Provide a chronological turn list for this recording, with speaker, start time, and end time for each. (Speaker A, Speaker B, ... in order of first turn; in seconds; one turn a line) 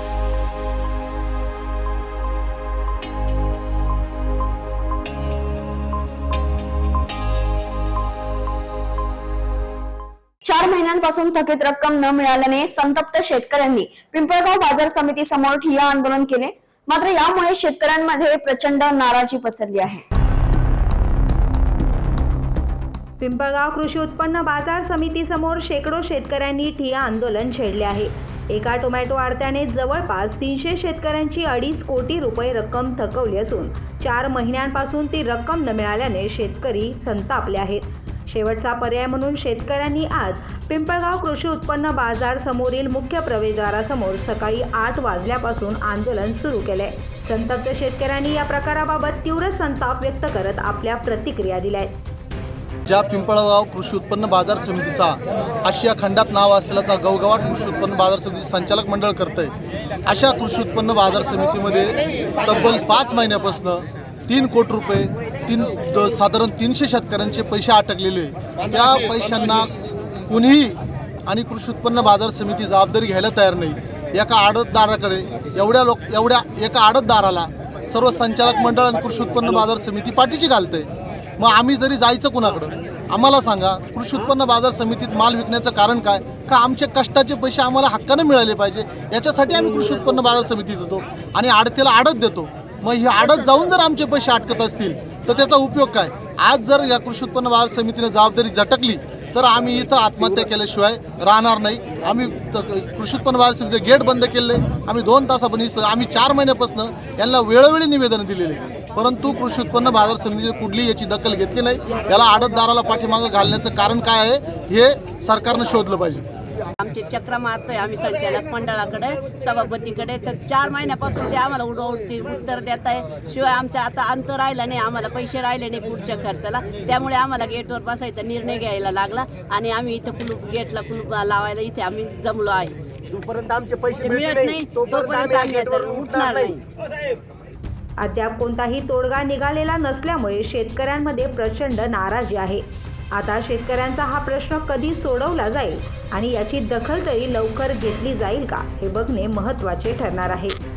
Speaker A: 10.4-20.0
Speaker B: 23.2-51.9
Speaker C: 52.9-59.5
Speaker C: 60.0-69.7
Speaker C: 70.3-116.2
Speaker D: 116.8-132.7
Speaker E: 133.1-136.5
Speaker D: 134.0-136.6
Speaker B: 138.0-150.6